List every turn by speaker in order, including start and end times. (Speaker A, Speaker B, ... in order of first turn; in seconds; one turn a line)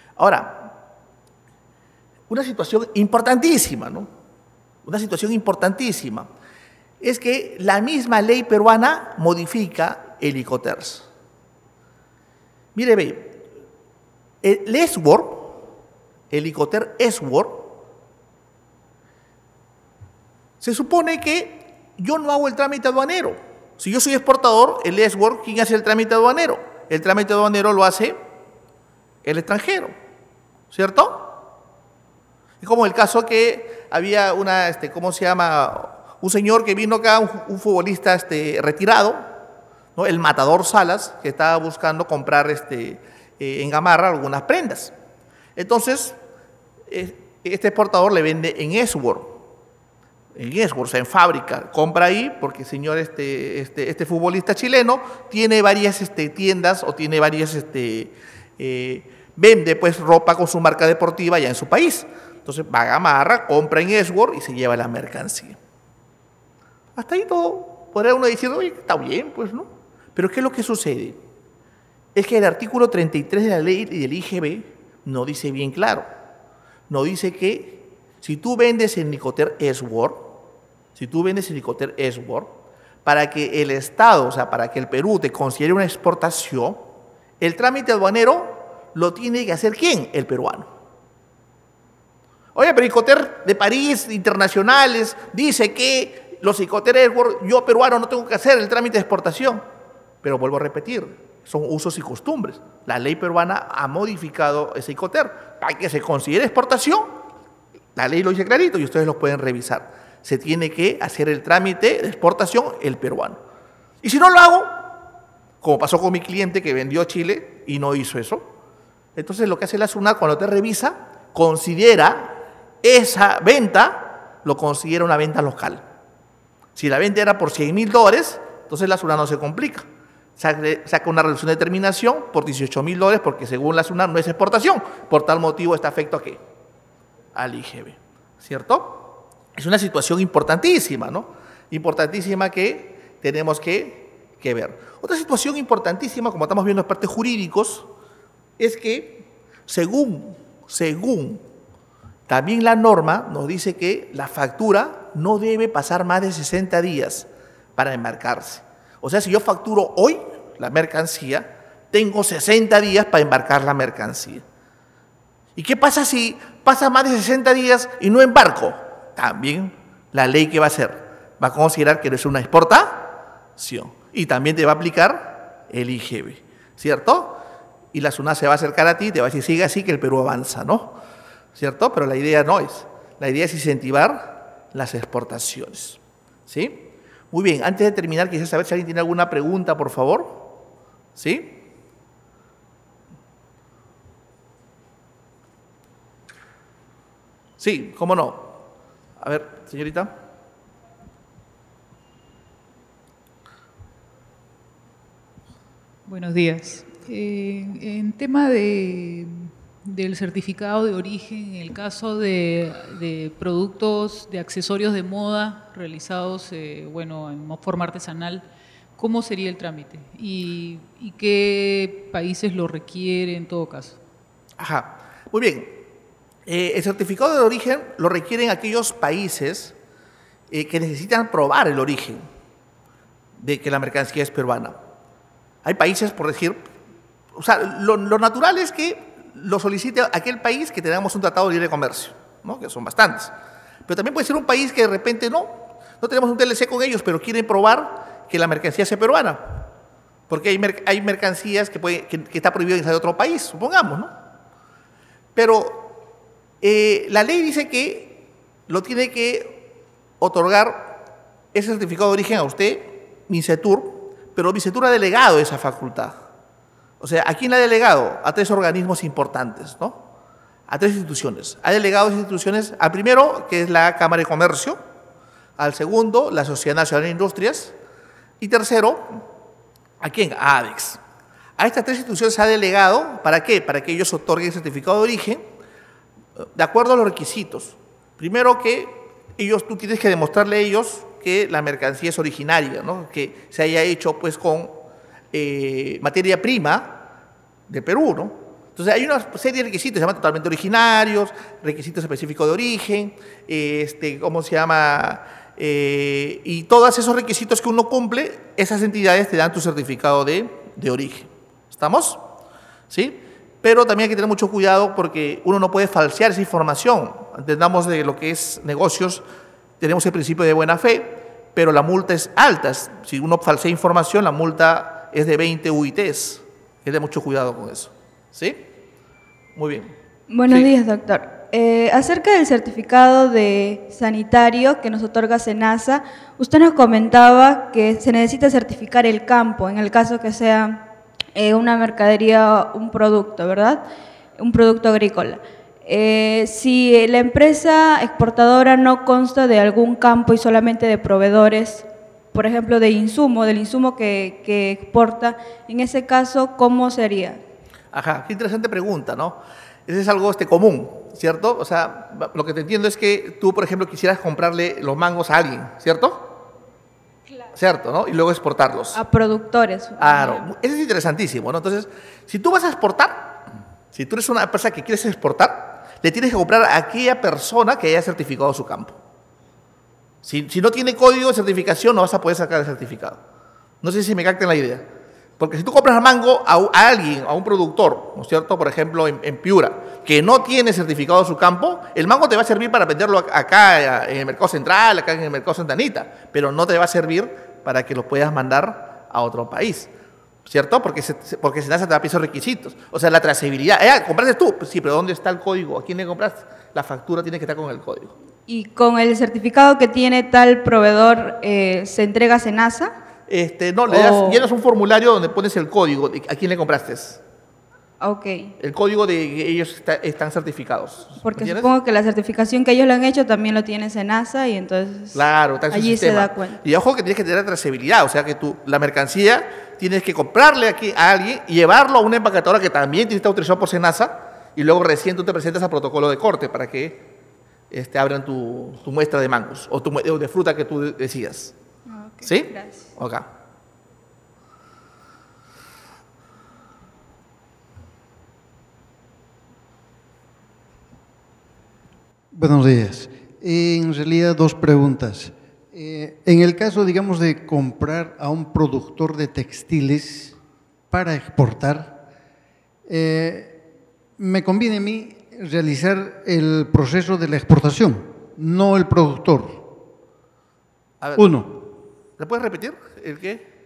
Speaker A: 0.2-0.7
Speaker A: 2.3-4.1
Speaker A: 4.8-6.3
Speaker A: 7.0-11.1
Speaker A: 12.7-13.4
Speaker A: 14.4-15.6
Speaker A: 16.3-17.8
Speaker A: 20.6-28.2
Speaker A: 29.2-29.9
Speaker A: 30.7-31.4
Speaker A: 32.6-39.3
Speaker A: 40.0-44.9
Speaker A: 45.5-46.2
Speaker A: 46.9-49.4
Speaker A: 50.3-65.6
Speaker A: 67.0-71.2
Speaker A: 72.1-76.1
Speaker A: 76.9-80.4
Speaker A: 80.9-90.7
Speaker A: 92.5-99.6
Speaker A: 100.2-107.2
Speaker A: 108.0-113.4
Speaker A: 114.0-114.9
Speaker A: 115.6-118.5
Speaker A: 119.2-125.8
Speaker A: 126.8-129.8
Speaker A: 130.4-136.4
Speaker A: 137.3-147.9
Speaker A: 148.6-151.4
Speaker A: 152.3-164.4
Speaker A: 165.6-177.4
Speaker A: 177.9-181.0
Speaker A: 181.5-190.6
Speaker A: 191.2-191.6
Speaker A: 197.6-198.6
Speaker A: 199.2-200.1
Speaker B: 206.1-218.4
Speaker B: 219.0-224.0
Speaker A: 224.6-225.8
Speaker A: 226.4-229.7
Speaker A: 230.5-232.2
Speaker A: 233.4-234.8
Speaker A: 235.6-236.7
Speaker A: 237.3-243.3
Speaker A: 243.9-249.7
Speaker A: 250.3-254.1
Speaker A: 255.3-256.0
Speaker A: 256.6-259.7
Speaker A: 260.2-261.0
Speaker A: 261.5-266.2
Speaker A: 267.0-270.0
Speaker A: 270.7-274.8
Speaker A: 275.6-277.7
Speaker A: 278.4-279.2
Speaker A: 280.0-281.0
Speaker A: 281.6-285.4
Speaker A: 286.4-297.0
Speaker A: 297.7-312.2
Speaker A: 312.9-319.2
Speaker A: 319.8-328.6
Speaker A: 329.6-329.9
Speaker C: 330.3-343.9
Speaker C: 344.4-357.4
Speaker A: 357.9-366.2
Speaker A: 367.5-369.0
Speaker C: 368.9-370.5
Speaker A: 370.0-379.0
Speaker A: 380.2-383.2
Speaker A: 383.8-384.8
Speaker A: 385.4-399.9
Speaker A: 400.4-408.1
Speaker C: 408.5-412.9
Speaker A: 413.3-417.2
Speaker C: 413.9-414.4
Speaker C: 418.0-418.5
Speaker A: 418.6-421.7
Speaker C: 421.2-426.6
Speaker A: 425.1-437.0
Speaker A: 437.7-441.5
Speaker C: 441.9-442.8
Speaker A: 442.2-443.3
Speaker D: 452.3-460.4
Speaker D: 460.9-462.0
Speaker D: 462.9-463.6
Speaker D: 464.2-469.7
Speaker A: 471.0-471.7
Speaker D: 471.1-471.6
Speaker A: 472.2-473.4